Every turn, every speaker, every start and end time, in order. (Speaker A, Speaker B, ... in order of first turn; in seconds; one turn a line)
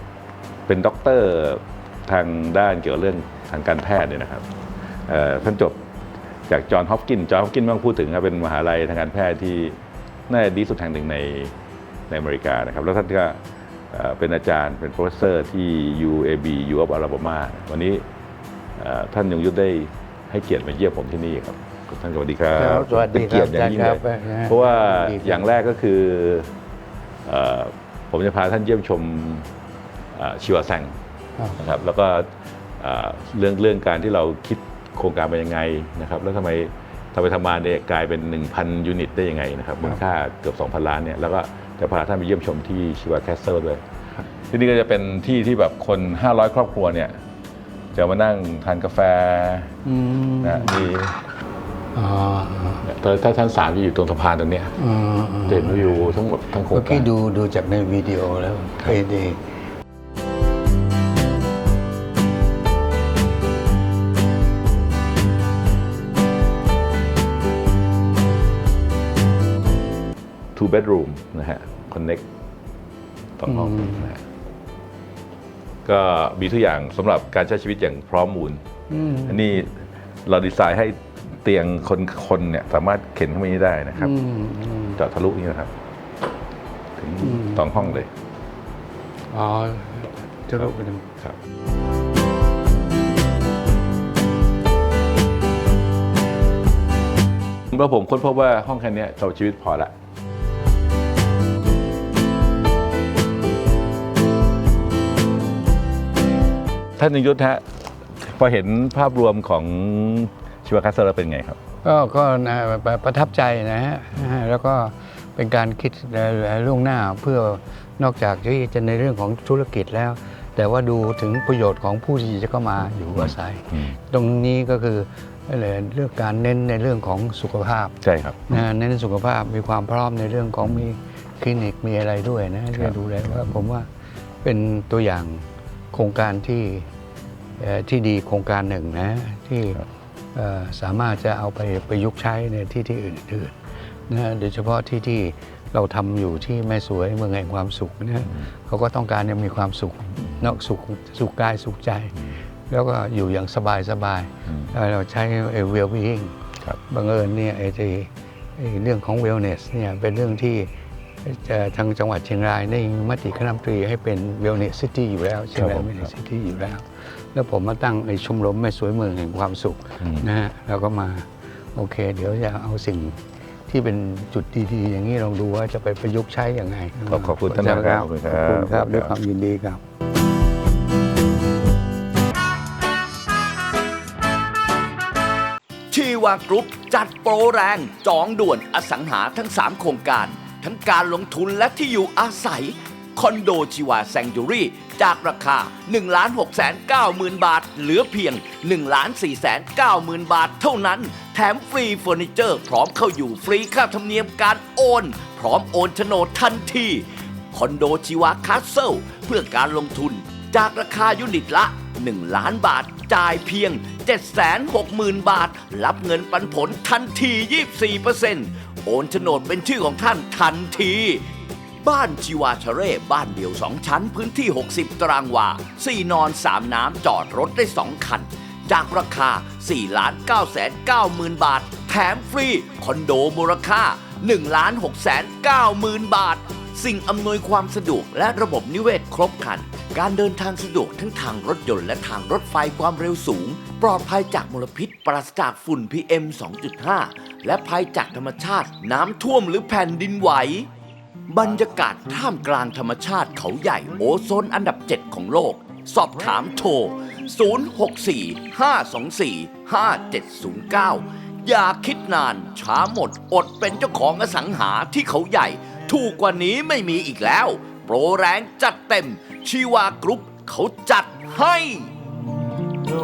Speaker A: 0.7-4.5
Speaker A: 5.1-5.8
Speaker A: 6.5-11.5
Speaker A: 12.1-13.4
Speaker A: 13.9-18.0
Speaker A: 18.8-26.5
Speaker B: 22.5-25.5
Speaker A: 27.2-29.5
Speaker A: 30.1-30.9
Speaker A: 31.6-43.8
Speaker A: 44.5-47.2
Speaker A: 47.9-49.7
Speaker B: 49.8-50.8
Speaker A: 50.4-51.2
Speaker B: 51.9-52.9
Speaker A: 52.8-54.8
Speaker B: 54.8-59.4
Speaker A: 55.5-57.1
Speaker A: 70.5-72.2
Speaker A: 73.4-74.2
Speaker B: 73.5-74.1
Speaker A: 75.8-84.1
Speaker B: 78.9-79.4
Speaker B: 84.0-85.0
Speaker A: 84.9-85.7
Speaker A: 87.0-88.1
Speaker B: 87.2-87.8
Speaker B: 89.3-91.0
Speaker A: 97.7-99.9
Speaker A: 107.0-107.6
Speaker A: 108.2-111.6
Speaker B: 111.8-128.0
Speaker A: 123.1-124.0
Speaker A: 128.0-128.6
Speaker B: 128.5-133.9
Speaker A: 132.7-133.5
Speaker B: 134.4-136.9
Speaker B: 137.6-139.8
Speaker B: 140.3-143.5
Speaker B: 144.1-152.1
Speaker B: 152.7-156.3
Speaker A: 154.5-154.7
Speaker B: 156.9-160.7
Speaker B: 161.2-179.8
Speaker A: 165.5-166.1
Speaker A: 170.0-170.3
Speaker A: 177.0-179.2
Speaker C: 185.9-221.3
Speaker C: 221.8-250.7
Speaker C: 251.3-271.9